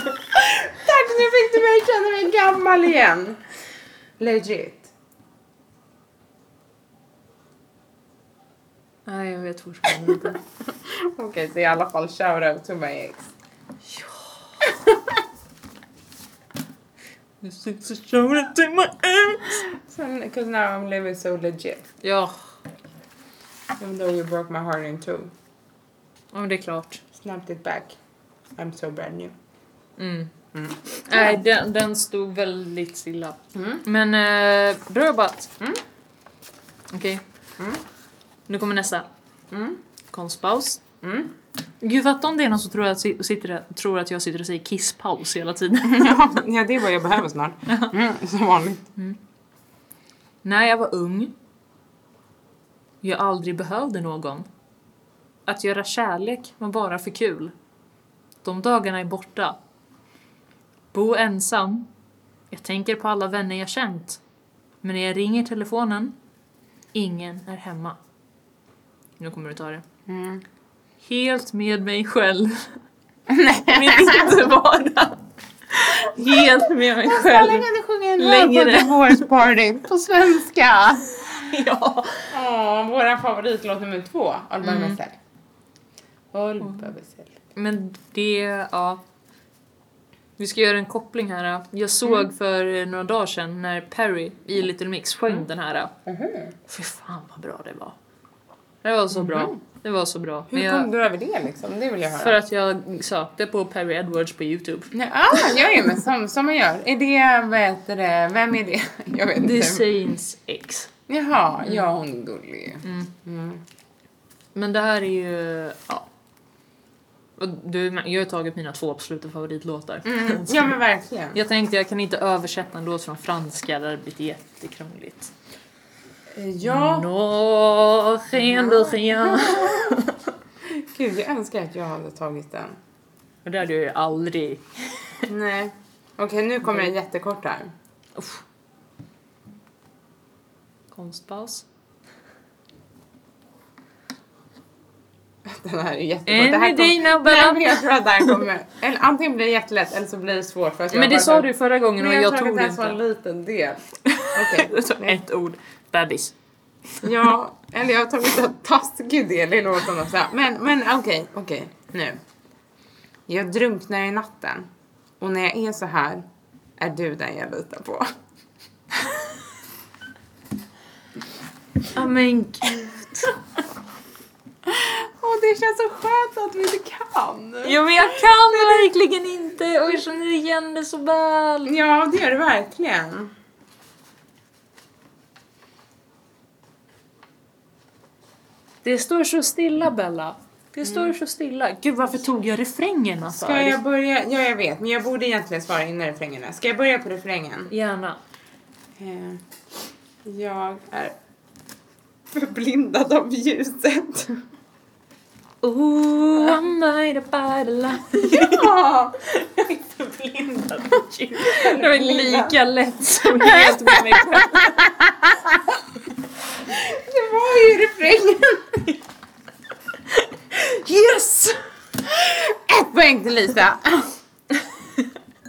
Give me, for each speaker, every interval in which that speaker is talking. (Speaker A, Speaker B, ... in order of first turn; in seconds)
Speaker A: 0.3-3.4, 4.2-4.9, 10.7-13.3, 14.7-15.2, 19.6-21.9, 23.8-25.3, 27.1-27.9, 28.6-29.3, 30.5-31.4, 33.5-33.8, 39.5-39.8, 41.0-41.3, 45.8-48.9, 70.1-70.4, 73.3-74.5, 76.1-81.1, 82.3-85.2, 86.3-87.3, 96.1-96.5, 99.1-99.6, 100.5-102.3, 104.9-109.9, 111.1-113.6, 120.0-121.4, 126.3-127.1, 128.3-130.0, 130.6-132.8, 135.3-137.7, 145.4-155.2, 157.0-162.2, 163.3-164.7, 165.2-166.2, 166.8-168.1, 174.6-178.9, 181.7-183.3, 190.8-191.1, 193.3-197.7, 199.0-199.4, 200.2-201.2, 202.3-204.4, 208.1-209.6, 211.4-212.6, 213.2-215.8, 216.6-219.0, 222.0-224.2
Speaker B: 9.1-10.4, 13.9-14.7, 17.4-19.6, 22.0-22.4, 26.3-27.0, 30.0-30.3, 31.0-35.5, 36.9-37.2, 38.5-39.1, 40.1-40.8, 41.8-46.2, 47.7-47.9, 50.4-51.3, 53.0-54.5, 55.5-57.5, 58.4-59.6, 60.9-61.9, 62.5-64.2, 64.8-66.2, 66.9-68.0, 69.2-69.8, 71.0-72.8, 73.7-77.7, 78.2-79.3, 81.2-82.3, 84.6-85.0, 87.5-89.0, 90.4-95.9, 96.7-98.0, 98.8-100.9, 102.2-104.9, 109.4-110.9, 112.8-113.1, 114.5-116.1, 117.4-120.8, 121.3-125.3, 126.6-130.3, 133.4-135.3, 138.2-138.4, 140.9-141.7, 146.3-148.4, 150.9-153.0, 154.1-156.3, 171.9-173.4, 177.6-181.8, 188.8-193.8, 197.7-198.2, 205.6-208.8, 209.4-214.9, 220.1-221.6